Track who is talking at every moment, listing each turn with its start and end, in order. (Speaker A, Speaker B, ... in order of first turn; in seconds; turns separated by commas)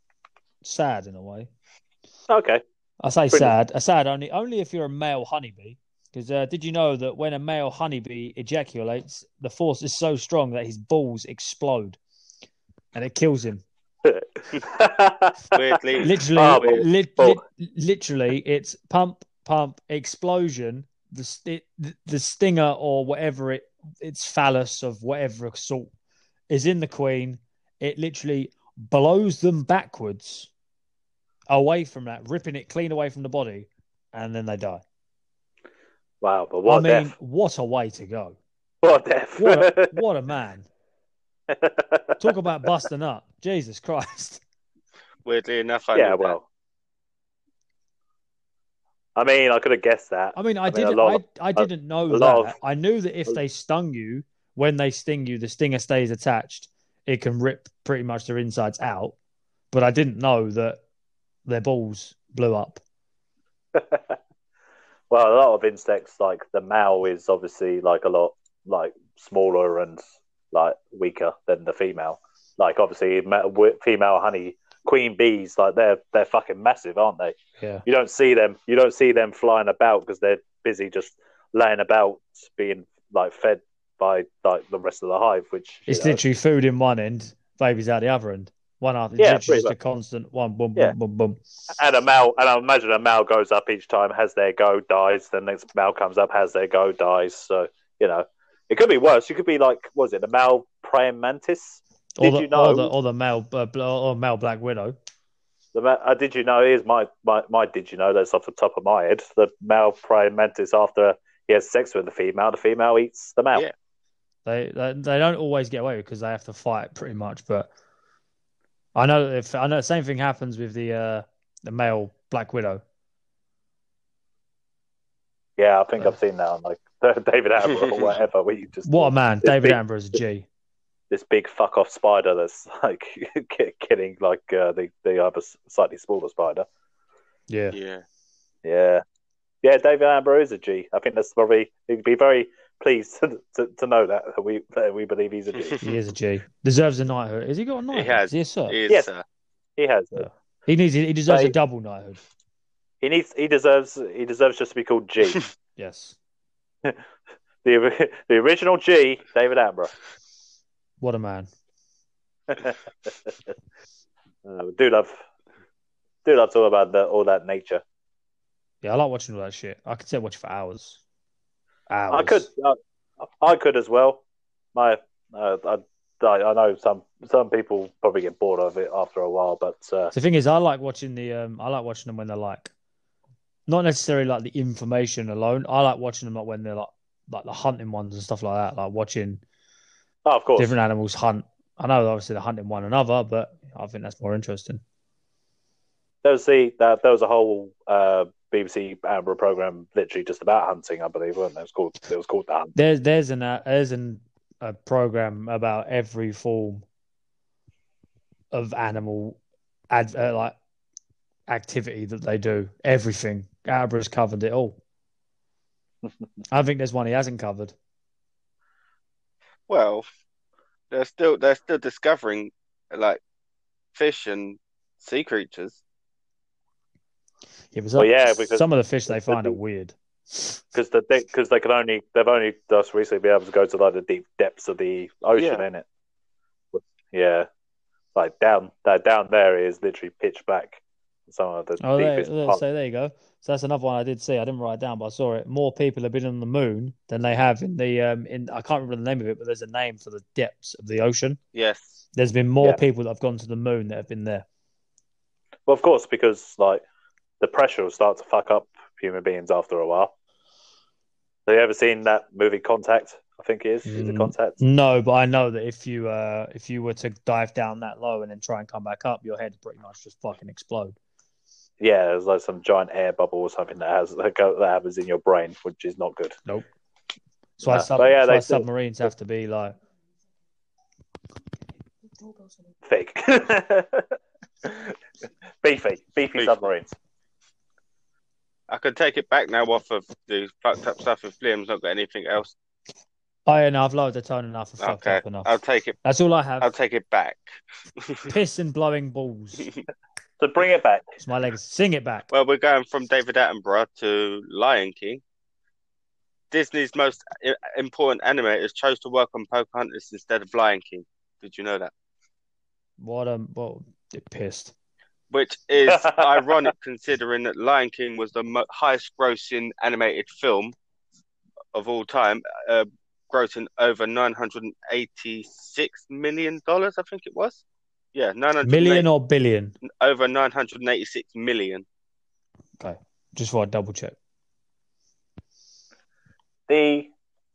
Speaker A: 0.6-1.5, Speaker B: 2.3-2.6, Speaker A: 3.0-12.0, Speaker A: 12.9-13.6, Speaker B: 14.0-15.8, Speaker C: 15.5-16.7, Speaker A: 16.0-25.9, Speaker B: 16.3-17.4, Speaker A: 26.5-30.5, Speaker A: 31.5-34.8, Speaker B: 36.2-37.1, Speaker A: 36.6-38.4, Speaker B: 38.8-40.0, Speaker A: 39.4-40.7, Speaker B: 41.5-42.3, Speaker A: 42.2-44.4, Speaker C: 45.2-46.4, Speaker B: 45.9-46.4, Speaker B: 49.1-52.5, Speaker A: 50.3-59.1, Speaker A: 59.7-60.8, Speaker A: 61.5-62.8, Speaker B: 63.7-64.2, Speaker B: 65.1-86.2, Speaker A: 77.6-77.8, Speaker A: 85.9-91.4, Speaker B: 89.2-89.7, Speaker B: 91.7-102.9, Speaker A: 102.2-105.0, Speaker B: 105.7-113.7, Speaker A: 114.5-117.7, Speaker A: 118.9-122.8, Speaker B: 125.6-129.8, Speaker C: 127.7-128.1, Speaker A: 128.8-130.5, Speaker B: 131.1-136.7, Speaker A: 137.5-137.8, Speaker C: 137.7-138.0, Speaker B: 138.6-139.0, Speaker B: 139.6-145.8, Speaker A: 145.8-148.8, Speaker C: 147.9-149.2, Speaker B: 149.8-150.3, Speaker A: 150.2-152.2, Speaker B: 151.3-151.5, Speaker B: 153.0-155.4, Speaker A: 155.8-156.2, Speaker B: 157.6-159.9, Speaker A: 161.0-161.5, Speaker B: 162.5-163.3, Speaker B: 164.4-165.2, Speaker B: 166.2-167.8, Speaker A: 168.8-171.0, Speaker A: 171.9-172.5, Speaker B: 172.1-174.2, Speaker B: 174.7-180.1, Speaker A: 180.1-182.7, Speaker A: 183.7-189.4, Speaker B: 190.2-190.7, Speaker A: 190.6-194.8, Speaker B: 196.2-202.7, Speaker A: 202.7-206.8, Speaker A: 208.5-209.4, Speaker A: 209.9-210.6, Speaker A: 211.5-214.8, Speaker A: 216.5-217.7, Speaker C: 219.7-220.0, Speaker C: 220.9-223.2, Speaker C: 223.9-225.8, Speaker A: 227.7-230.6, Speaker B: 228.0-229.6, Speaker B: 230.7-235.8, Speaker C: 235.3-235.6, Speaker B: 236.7-237.5, Speaker B: 238.1-242.6, Speaker A: 241.8-251.4, Speaker C: 251.5-251.9, Speaker A: 252.1-254.4, Speaker B: 255.7-256.8, Speaker B: 257.4-260.1, Speaker B: 261.5-264.6, Speaker A: 263.9-270.9, Speaker B: 271.8-276.4, Speaker A: 277.6-279.7, Speaker B: 277.6-278.6, Speaker B: 282.8-285.0, Speaker B: 285.6-286.9, Speaker C: 288.7-292.5, Speaker A: 293.5-295.5, Speaker C: 294.8-296.0, Speaker A: 296.0-296.7, Speaker C: 296.6-297.4, Speaker C: 298.0-298.3, Speaker A: 298.3-299.7, Speaker B: 300.4-301.1, Speaker A: 301.2-302.3, Speaker C: 302.3-305.2, Speaker C: 306.5-311.9, Speaker A: 313.0-314.7, Speaker C: 315.3-320.7, Speaker B: 315.9-316.7, Speaker C: 321.7-327.6, Speaker C: 328.1-329.1, Speaker A: 328.6-329.7, Speaker C: 329.8-331.8, Speaker A: 332.8-334.1, Speaker B: 336.7-337.1